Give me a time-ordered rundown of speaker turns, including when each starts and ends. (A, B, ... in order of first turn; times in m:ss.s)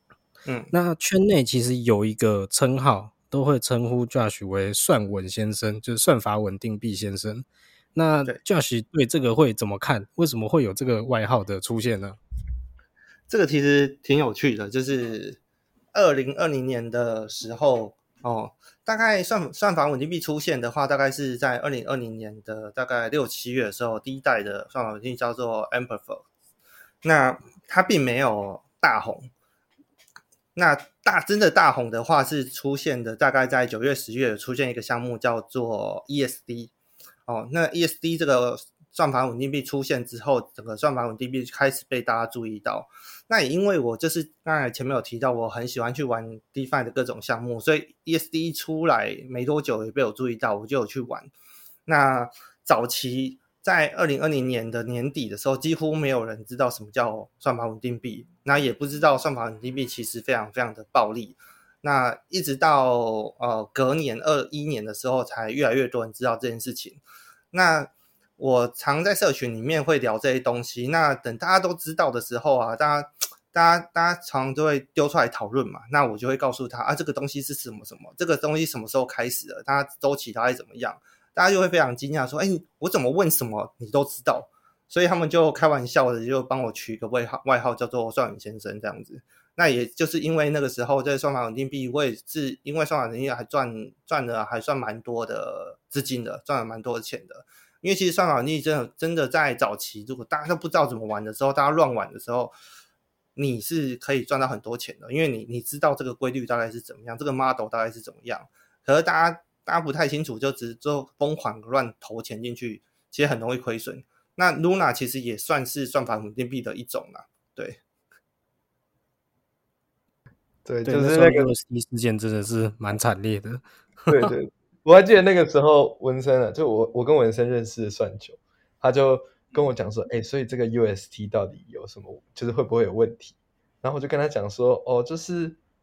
0:00.5-0:00.7 A
0:00.7-0:12.2 B
0:13.3-0:15.4 A
0:15.9-0:26.2 A
0:27.0-0:29.3 A
0:30.6-0:36.7 A
0:37.3-0:51.3 A
0:51.9-1:07.0 A
1:07.5-1:42.5 A
1:43.4-1:57.8 A
2:00.6-2:01.5 C
2:00.9-2:04.3 B
2:04.1-2:15.6 C